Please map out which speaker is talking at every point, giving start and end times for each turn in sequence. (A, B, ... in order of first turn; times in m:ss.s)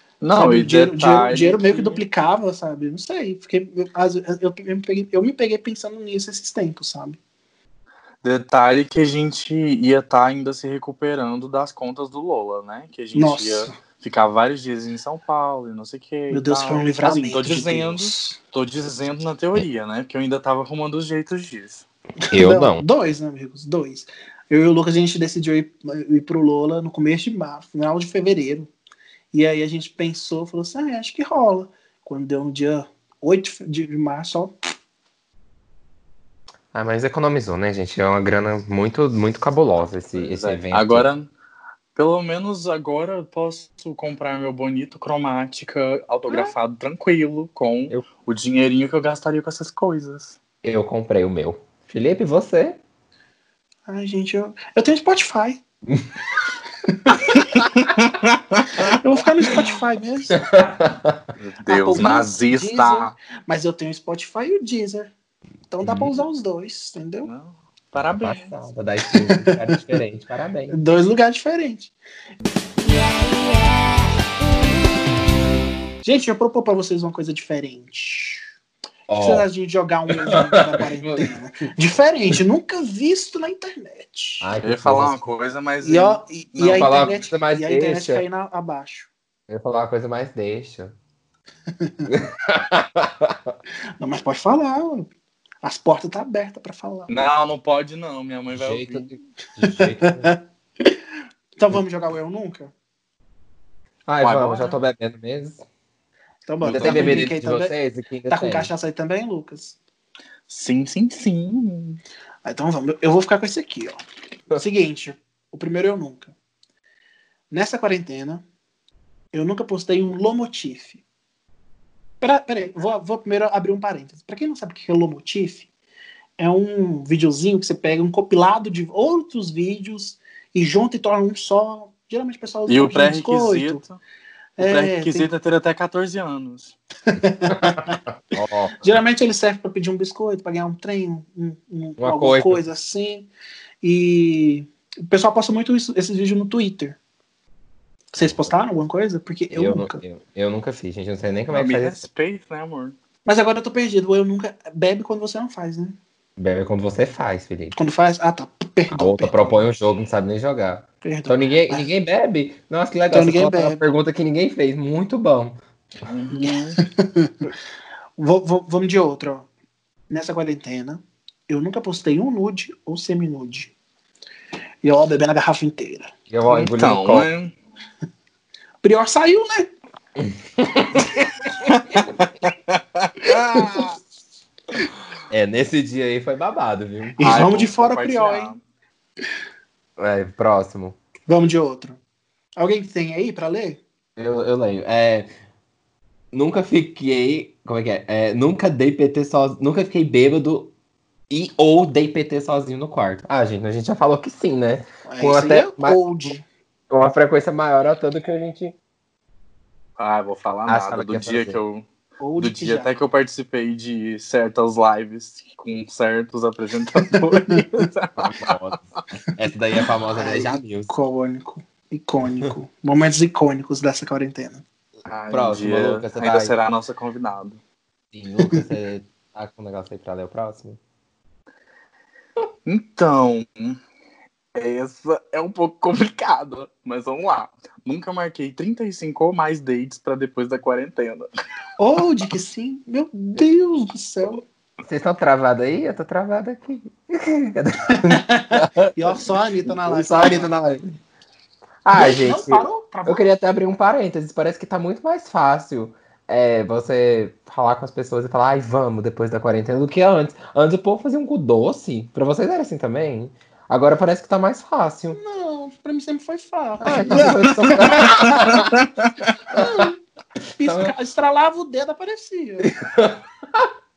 0:00.2-0:02.0 A
0:00.4-0:07.2 B
0:08.2-0:21.8 A
0:13.2-0:13.7 B
0:16.3-0:18.4 B
0:22.2-0:28.7 B
0:22.3-0:22.8 C
0:29.3-0:34.6 B
0:36.7-0:41.1 C
0:40.2-0:41.3 A
0:42.0-0:50.4 A
0:46.3-0:46.5 C
0:50.6-0:52.8 C
0:53.9-0:55.6 B
0:56.9-0:57.3 B
0:57.8-0:58.9 A
0:58.9-1:00.4 B
1:00.3-1:01.3 C
1:01.4-1:03.2 A
1:01.7-1:05.1 B
1:05.7-1:07.3 B
1:05.8-1:06.2 C
1:07.2-1:08.5 A
1:08.1-1:10.8 C
1:09.3-1:09.7 B
1:10.7-1:11.9 B
1:16.0-1:18.4 B
1:19.1-1:19.5 C
1:19.2-1:24.5 B
1:21.0-1:21.3 C
1:24.4-1:25.2 C
1:24.6-1:27.0 A
1:25.8-1:29.1 B
1:26.7-1:28.2 C
1:29.5-1:30.9 C
1:31.8-1:32.1 B
1:32.1-1:33.5 C
1:34.0-1:35.1 B
1:35.6-1:37.1 B
1:37.1-1:39.1 A
1:38.5-1:40.3 C
1:39.6-1:41.0 B
1:41.6-1:42.7 B
1:44.1-1:45.6 C
1:44.2-1:44.8 A
1:46.5-1:47.7 B
1:46.6-1:48.7 C
1:46.7-1:47.3 A
1:48.3-1:49.8 B
1:50.5-1:52.0 A
1:52.4-1:54.0 B
1:54.5-1:56.4 B
1:57.5-1:58.4 B
1:59.3-2:01.0 B
2:02.2-2:05.7 B
2:06.4-2:13.8 B
2:12.7-2:14.0 A
2:14.6-2:15.3 B
2:14.6-2:16.8 A
2:17.1-2:18.0 B
2:17.5-2:19.0 C
2:18.8-2:23.3 B
2:22.0-2:22.6 C
2:23.8-2:27.0 B
2:28.1-2:30.0 B
2:28.2-2:28.5 C
2:29.5-2:32.0 C
2:31.5-2:33.0 A
2:33.3-2:36.0 B
2:36.4-2:37.8 C
2:37.8-2:39.6 B
2:38.9-2:45.6 C
2:41.0-2:41.9 B
2:43.1-2:43.8 B
2:46.1-2:46.8 A
2:46.3-2:47.5 B
2:48.2-2:49.5 B
2:50.1-2:53.7 B
2:54.8-2:56.1 B
2:56.3-2:57.3 C
2:56.5-2:57.5 A
2:58.8-2:59.7 B
3:00.2-3:01.0 C
3:01.6-3:04.0 A
3:03.3-3:03.9 B
3:05.3-3:07.5 C
3:07.2-3:08.5 B
3:07.2-3:08.6 A
3:10.0-3:11.0 C
3:11.3-3:12.0 B
3:12.6-3:13.8 B
3:14.2-3:15.3 C
3:16.3-3:20.7 C
3:21.3-3:26.4 C
3:25.1-3:26.4 B
3:26.9-3:28.8 C
3:30.0-3:31.9 A
3:30.7-3:31.6 C
3:32.2-3:33.0 B
3:32.4-3:38.6 A
3:37.5-3:37.8 B
3:38.2-3:38.8 C
3:39.4-3:40.9 C
3:40.2-3:44.6 B
3:45.1-3:47.6 A
3:45.3-3:46.5 C
3:48.1-3:50.8 C
3:52.7-3:53.8 A
3:54.5-4:01.3 A
4:01.8-4:04.5 B
4:04.8-4:10.8 C
4:07.9-4:10.5 B
4:11.8-4:25.2 C
4:11.9-4:13.3 B
4:25.1-4:28.5 B
4:26.8-4:28.7 C
4:27.2-4:29.3 A
4:29.5-4:30.0 B
4:29.5-4:29.9 C
4:30.6-4:32.8 B
4:30.6-4:30.9 C
4:32.8-4:33.7 C